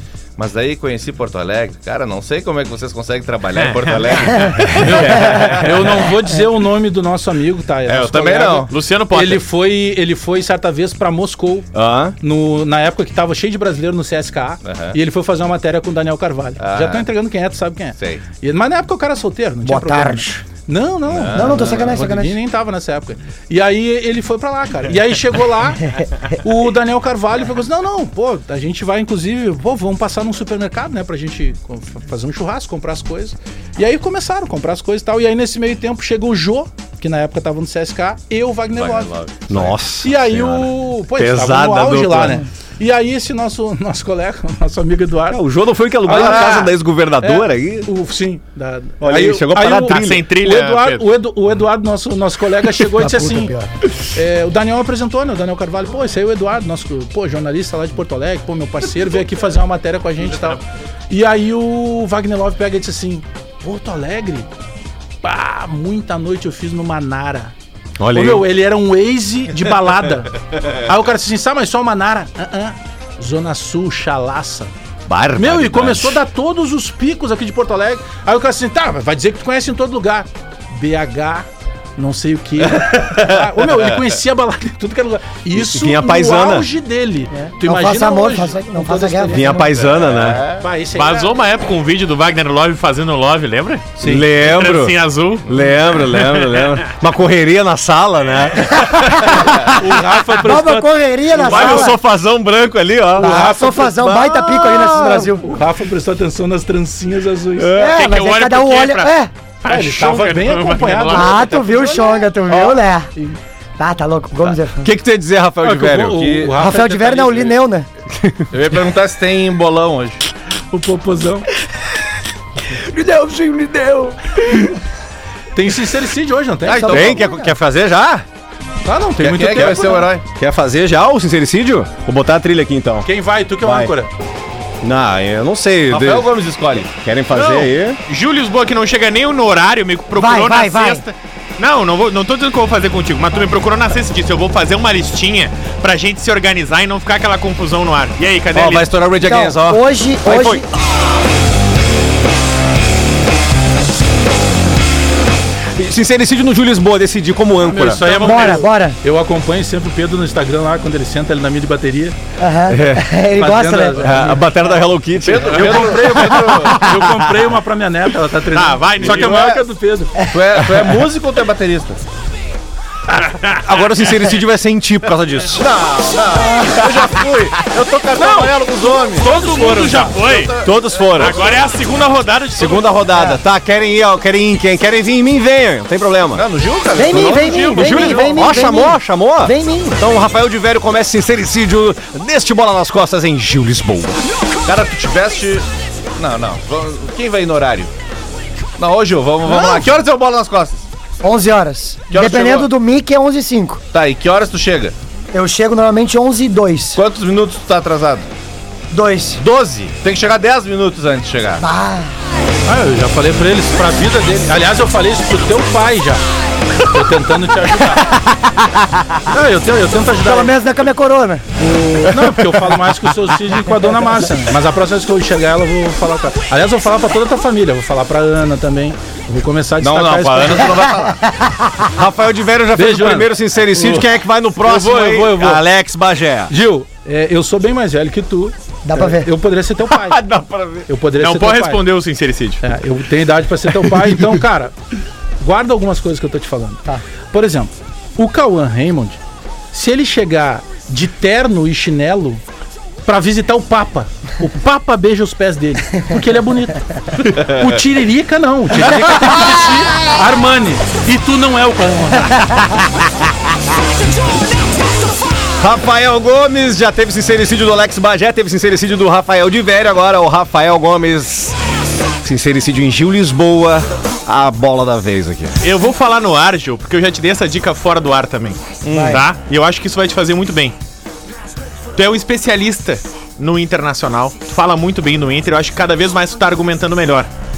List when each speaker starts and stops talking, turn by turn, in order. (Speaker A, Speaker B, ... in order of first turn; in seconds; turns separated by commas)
Speaker A: 0.4-5.7, Speaker B: 3.6-4.9, Speaker C: 4.7-11.7, Speaker D: 5.0-5.7, Speaker A: 7.9-8.7, Speaker B: 8.7-9.4, Speaker D: 11.7-12.2, Speaker C: 12.2-39.1, Speaker A: 14.7-15.0, Speaker A: 16.6-17.1, Speaker A: 18.0-18.2, Speaker E: 19.6-20.4, Speaker A: 21.1-21.9, Speaker E: 21.3-22.4, Speaker A: 38.7-39.8, Speaker D: 39.5-42.4, Speaker C: 40.0-45.4, Speaker D: 45.3-47.9, Speaker C: 46.0-53.5, Speaker A: 46.1-46.7, Speaker D: 49.0-50.3, Speaker B: 49.8-51.1, Speaker E: 53.0-53.7, Speaker C: 54.1-64.5, Speaker C: 65.2-67.5, Speaker D: 68.0-68.5, Speaker C: 68.1-74.7, Speaker D: 75.1-76.2, Speaker C: 75.4-89.8, Speaker D: 85.5-86.7, Speaker E: 87.3-89.9, Speaker D: 89.3-90.5, Speaker A: 90.0-90.7, Speaker C: 90.4-91.4, Speaker B: 90.9-95.5, Speaker C: 94.0-94.3, Speaker D: 94.0-99.6, Speaker B: 96.0-96.8, Speaker E: 98.9-99.8, Speaker C: 99.6-101.9, Speaker E: 100.3-102.0, Speaker D: 101.3-105.4, Speaker C: 103.2-104.1, Speaker E: 103.2-105.6, Speaker C: 105.3-107.8, Speaker D: 107.6-108.1, Speaker E: 107.7-109.3, Speaker B: 107.8-111.8, Speaker C: 109.7-112.2, Speaker E: 111.1-114.9, Speaker D: 114.4-116.4, Speaker C: 115.6-117.6, Speaker A: 116.1-116.6, Speaker E: 116.6-117.9, Speaker D: 118.1-118.5, Speaker A: 118.5-120.2, Speaker C: 120.7-121.5, Speaker D: 122.7-124.8, Speaker C: 125.5-127.2, Speaker E: 126.7-127.5, Speaker D: 126.7-128.2, Speaker C: 128.8-130.1, Speaker A: 129.2-130.2, Speaker D: 130.3-133.1, Speaker C: 133.1-134.1, Speaker D: 133.6-133.9, Speaker D: 134.8-136.3, Speaker A: 135.9-136.9, Speaker D: 136.9-138.0, Speaker B: 137.3-148.9, Speaker E: 140.2-141.0, Speaker D: 148.5-150.7, Speaker E: 149.2-150.7, Speaker D: 155.8-158.1, Speaker C: 157.7-162.2, Speaker B: 157.9-158.7, Speaker E: 158.1-159.0, Speaker E: 162.4-164.2, Speaker D: 162.7-163.1, Speaker C: 163.3-164.5, Speaker D: 164.0-165.9, Speaker A: 165.2-166.9, Speaker C: 165.4-170.2, Speaker D: 166.9-167.3, Speaker B: 168.5-169.5, Speaker A: 169.0-169.7, Speaker E: 170.2-170.5, Speaker A: 170.3-172.0, Speaker B: 173.1-174.2, Speaker D: 173.6-175.7, Speaker A: 175.6-181.7, Speaker C: 178.2-180.2, Speaker B: 179.5-180.5, Speaker D: 180.6-181.4, Speaker B: 181.2-182.9, Speaker D: 182.6-186.4, Speaker E: 183.1-183.4, Speaker A: 186.3-187.9, Speaker E: 186.9-190.0, Speaker B: 187.1-188.7, Speaker D: 187.1-194.2, Speaker A: 194.7-195.7, Speaker A: 196.2-197.9, Speaker A: 198.8-200.9, Speaker E: 199.5-199.8, Speaker E: 201.2-203.8, Speaker A: 202.1-202.7, Speaker A: 203.9-204.9, Speaker E: 205.3-207.0, Speaker A: 207.0-208.3, Speaker E: 208.9-209.4, Speaker A: 209.4-211.6, Speaker E: 211.6-212.1, Speaker C: 212.7-216.2, Speaker C: 216.8-218.2, Speaker D: 218.0-219.2, Speaker C: 219.3-220.5, Speaker E: 220.2-221.4, Speaker C: 221.6-230.8, Speaker D: 222.1-222.8, Speaker A: 229.8-231.2, Speaker E: 231.1-231.6, Speaker D: 231.9-236.5, Speaker C: 232.7-234.1, Speaker C: 234.6-235.6, Speaker C: 236.5-240.2, Speaker E: 238.8-239.3, Speaker D: 239.9-240.9, Speaker C: 240.9-241.8, Speaker B: 241.2-242.6, Speaker C: 242.6-244.8, Speaker C: 245.4-249.2, Speaker C: 249.7-252.4, Speaker C: 253.1-262.5, Speaker A: 257.4-257.7, Speaker D: 262.8-263.1, Speaker D: 265.6-271.6, Speaker D: 272.2-275.6, Speaker B: 275.6-280.8, Speaker A: 278.8-279.2, Speaker E: 278.9-279.2, Speaker B: 281.9-287.3